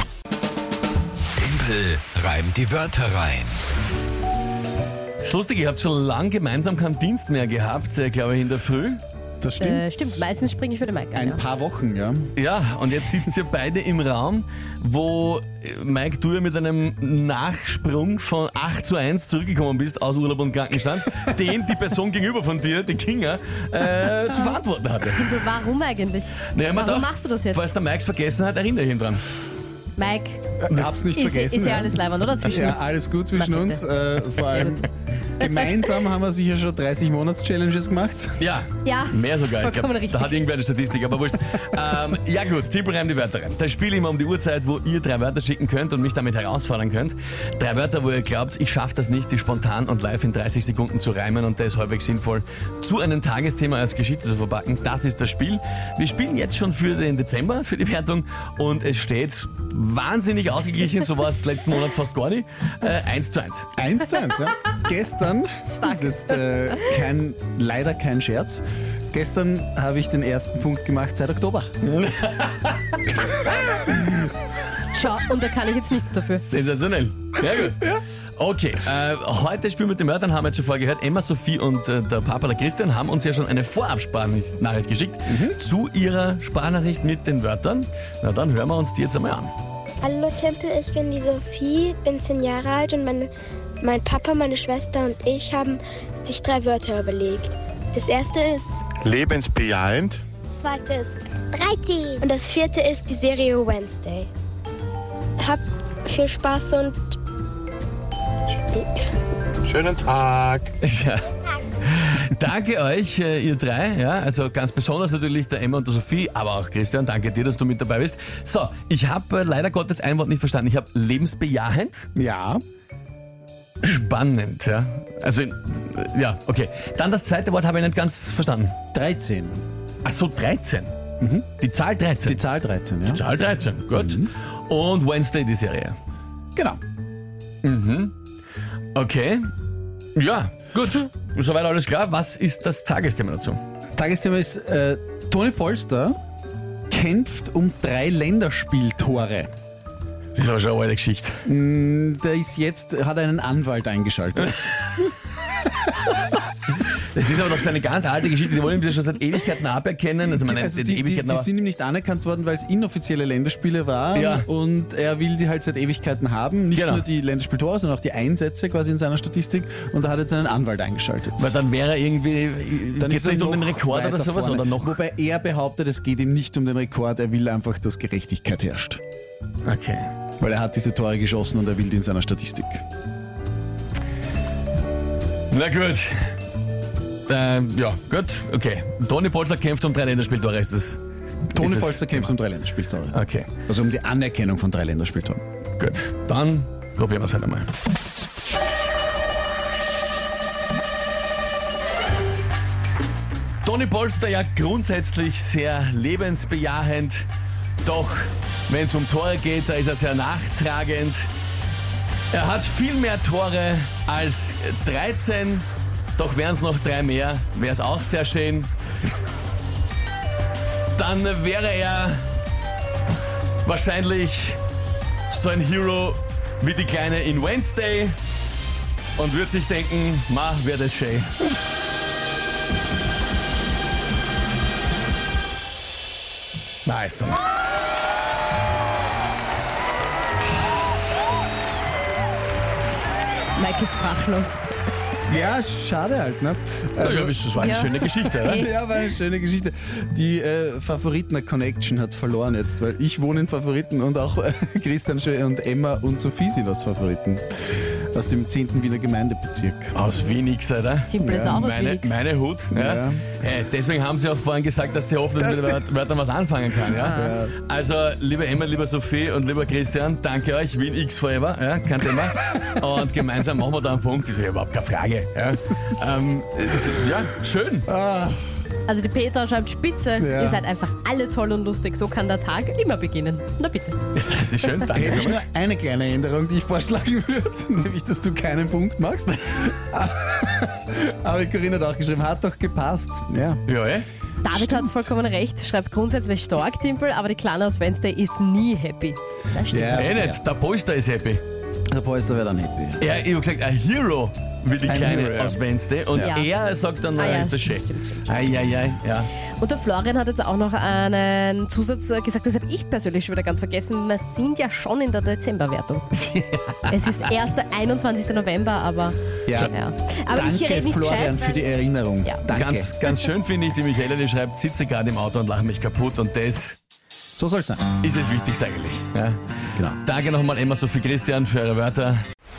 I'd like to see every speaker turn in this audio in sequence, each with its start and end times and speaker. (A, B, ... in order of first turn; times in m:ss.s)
0:01.4-0:03.6 A
0:05.2-0:09.0 B
0:09.4-0:09.9 C
0:09.6-0:11.4 D
0:11.1-0:12.3 C
0:12.4-0:25.5 B
0:24.3-0:24.6 D
0:25.1-0:27.7 D
0:26.5-0:29.2 B
0:30.0-0:30.4 D
0:30.6-0:34.9 C
0:31.1-0:34.8 D
0:35.4-0:38.4 C
0:35.4-0:35.7 D
0:38.4-1:03.7 B
0:38.8-0:40.4 D
1:03.8-1:11.7 C
1:05.8-1:06.1 D
1:11.8-1:13.0 B
1:14.9-1:16.4 D
1:16.4-1:29.6 B
1:25.3-1:25.6 C
1:30.0-1:38.8 E
1:39.0-1:40.2 F
1:40.6-1:44.3 E
1:45.4-1:47.1 E
1:48.7-1:49.1 E
1:49.7-1:50.7 F
1:50.8-1:51.3 B
1:51.8-2:02.1 B
2:02.2-2:02.6 C
2:03.8-2:08.8 B
2:08.9-2:09.6 C
2:10.0-2:10.9 B
2:11.2-2:11.5 C
2:11.6-2:12.4 B
2:12.2-2:13.2 C
2:13.0-2:16.0 B
2:13.9-2:14.3 C
2:16.6-2:16.8 C
2:17.6-2:18.1 B
2:19.0-2:19.5 B
2:20.2-2:23.6 B
2:24.0-2:26.2 C
2:26.9-2:29.5 C
2:30.4-2:31.4 B
2:31.5-2:34.8 C
2:34.4-2:34.7 B
2:37.1-2:41.5 B
2:40.5-2:51.6 C
2:44.1-2:44.5 B
2:46.7-2:47.1 B
2:51.4-2:55.0 B
2:53.0-2:59.0 C
2:59.7-3:00.1 B
3:00.4-3:02.8 C
3:05.5-3:06.1 B
3:07.3-3:11.0 B
3:11.6-3:12.3 B
3:11.6-3:15.4 C
3:13.1-3:13.5 B
3:15.8-3:17.7 B
3:23.6-3:27.3 B
3:27.8-3:31.3 B
3:32.3-3:35.7 B
3:36.2-3:38.7 B
3:41.0-3:42.3 B
3:43.6-3:44.6 B
3:45.3-3:48.2 B
3:49.2-3:51.5 B
3:56.9-3:57.4 B
4:03.6-4:04.7 D
4:05.3-4:07.4 C
4:07.0-4:08.7 B
4:07.6-4:08.7 D
4:08.5-4:17.4 C
4:18.1-4:20.0 C
4:19.9-4:37.9 B
4:21.1-4:22.2 D
4:21.2-4:21.5 C
4:22.7-4:23.3 C
4:27.0-4:27.5 C
4:37.9-4:38.4 C
4:38.9-4:44.0 D
4:40.2-4:40.6 C
4:44.1-4:45.4 B
4:44.9-4:53.6 C
4:53.7-4:54.1 B
4:54.4-5:00.1 D
4:54.5-4:54.9 C
4:59.7-5:00.4 C
5:00.0-5:01.4 B
5:01.9-5:03.1 C
5:03.0-5:09.3 B
5:04.9-5:05.6 C
5:06.1-5:06.4 C
5:06.2-5:06.5 D
5:07.1-5:08.5 D
5:09.6-5:16.2 D
5:16.8-5:21.7 D
5:19.5-5:19.8 C
5:20.3-5:22.9 C
5:22.5-5:26.8 B
5:27.4-5:27.9 C
5:28.0-5:29.4 B
5:29.7-5:30.0 C
5:30.0-5:32.2 B